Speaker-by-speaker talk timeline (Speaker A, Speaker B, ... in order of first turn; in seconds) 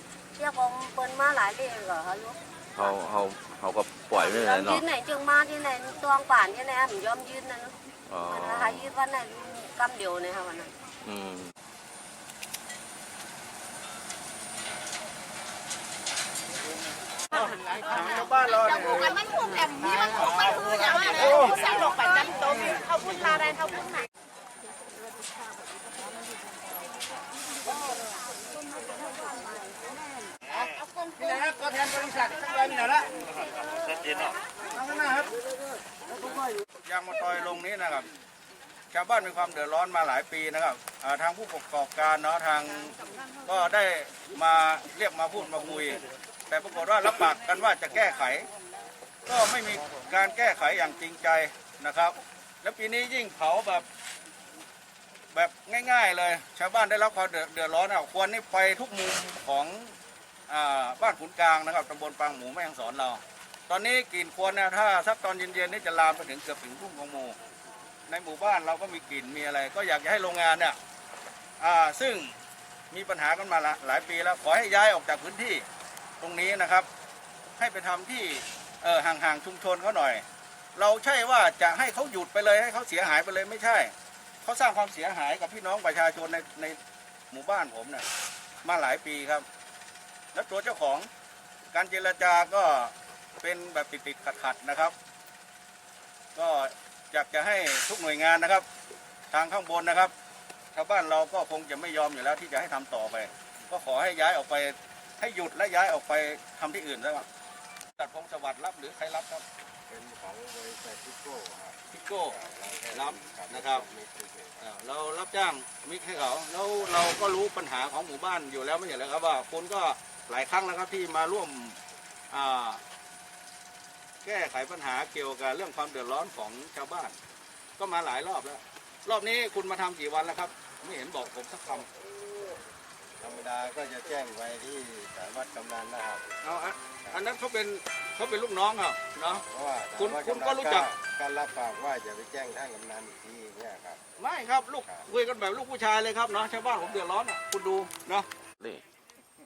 Speaker A: 0.3-3.0, 4.2-7.7, 8.3-10.7
Speaker B: 2.7-4.8, 8.1-8.9, 11.1-11.5
Speaker C: 17.3-19.2, 19.8-22.0, 31.2-33.1, 34.7-35.3, 36.3-38.1, 38.9-48.5, 49.3-53.9, 55.3-59.9, 60.5-67.4, 68.1-70.8, 71.6-72.3, 72.9-75.6, 76.2-76.9, 77.6-80.2, 80.8-86.8, 87.3-88.1, 88.6-89.5, 90.3-91.1, 91.7-94.9, 96.3-98.7, 99.3-100.1, 100.8-107.3, 108.0-109.4, 111.9-112.4, 112.9-113.8, 114.6-121.8, 122.3-122.8, 124.2-127.2, 127.8-131.9, 136.4-139.4, 140.0-140.9, 144.2-148.3
Speaker D: 18.7-23.9
Speaker E: 109.9-114.7, 133.2-136.4, 139.3-144.1